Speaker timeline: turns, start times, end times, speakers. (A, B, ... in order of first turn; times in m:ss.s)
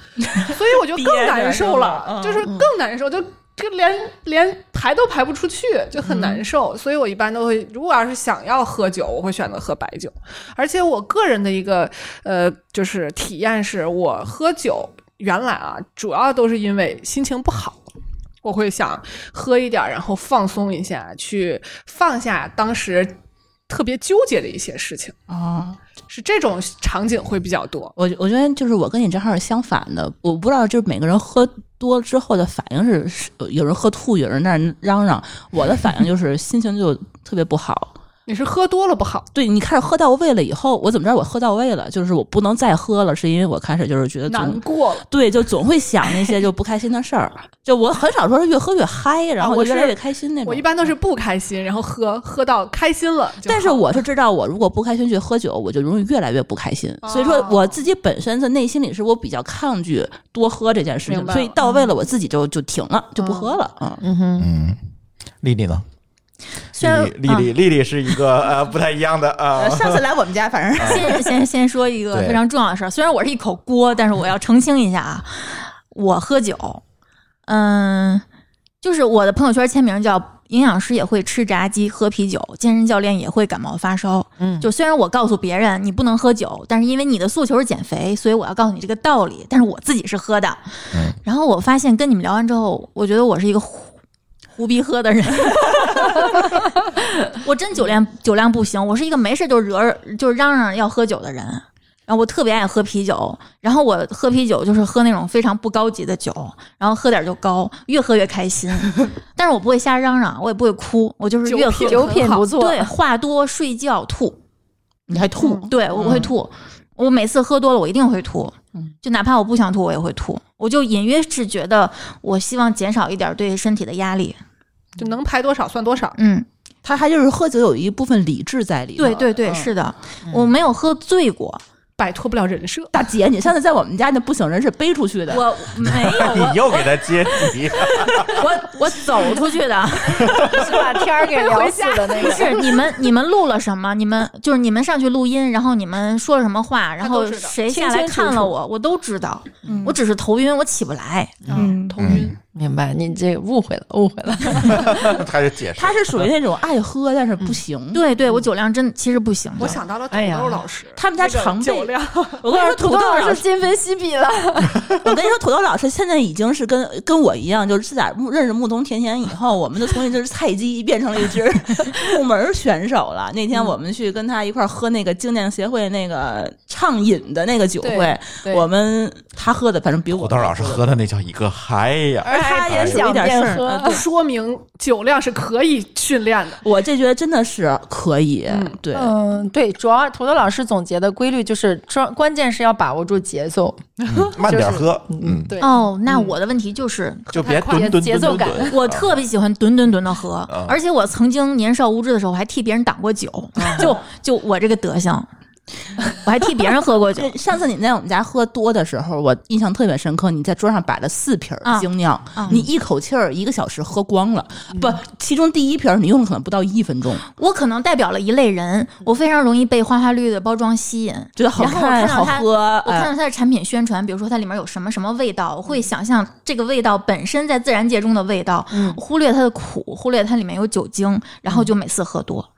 0:00.2-0:02.6 A
0:00.4-0:17.8 B
0:06.1-0:06.4 A
0:18.4-0:23.1 B
0:23.7-0:25.2 B
0:25.3-0:25.8 A
0:26.1-0:27.9 B
0:28.0-0:37.9 A
0:38.3-0:39.3 B
0:39.3-0:50.7 A
0:44.3-0:45.1 B
0:49.4-0:54.0 B
0:53.4-1:04.0 A
0:57.0-0:57.8 B
1:01.1-1:01.6 B
1:03.2-1:03.6 B
1:04.0-1:04.5 C
1:04.4-1:04.8 D
1:05.4-1:05.8 D
1:06.8-1:10.0 D
1:06.8-1:07.5 E
1:09.6-1:11.4 A
1:10.8-1:11.1 D
1:10.8-1:16.8 E
1:12.1-1:12.4 D
1:17.5-1:18.2 E
1:18.8-1:30.6 E
1:24.4-1:24.7 C
1:30.9-1:31.2 D
1:31.2-1:33.9 E
1:34.6-1:54.4 E
1:51.5-1:52.4 B
1:51.8-1:52.9 C
1:55.1-1:56.3 A
1:55.4-1:56.2 B
1:55.6-2:04.4 E
2:05.0-2:06.2 B
2:06.2-2:06.5 E
2:06.8-2:09.7 A
2:09.0-2:11.6 E
2:10.3-2:10.5 C
2:12.0-2:12.9 B
2:12.9-2:15.5 A
2:15.3-2:20.6 E
2:15.9-2:18.4 D
2:20.1-2:20.7 D
2:20.4-2:22.8 C
2:20.8-2:22.6 B
2:22.2-2:31.6 E
2:27.0-2:27.6 B
2:27.7-2:28.6 C
2:29.6-2:30.0 A
2:31.5-2:31.7 C
2:31.5-2:32.4 B
2:31.5-2:32.0 A
2:32.0-2:32.3 D
2:32.5-2:35.2 C
2:34.6-2:36.3 D
2:35.8-2:38.0 A
2:37.9-2:39.8 E
2:39.6-2:42.4 B
2:40.1-2:40.7 C
2:41.0-2:43.4 A
2:42.5-2:44.8 C
2:45.0-3:01.0 A
2:57.8-2:58.7 C
3:00.1-3:03.0 D
3:02.2-3:04.0 C
3:02.3-3:04.0 A
3:03.8-3:06.6 B
3:06.6-3:09.1 A
3:08.5-3:08.8 B
3:08.9-3:16.3 C
3:14.1-3:15.6 D
3:15.6-3:17.3 E
3:17.3-3:18.4 B
3:17.3-3:19.1 D
3:17.7-3:18.8 C
3:18.6-3:25.3 E
3:20.5-3:20.8 D
3:23.6-3:23.9 C
3:26.0-3:27.3 E
3:27.2-3:37.3 A
3:31.6-3:32.6 E
3:37.3-3:52.5 E
3:41.4-3:43.1 A
3:48.7-3:49.0 C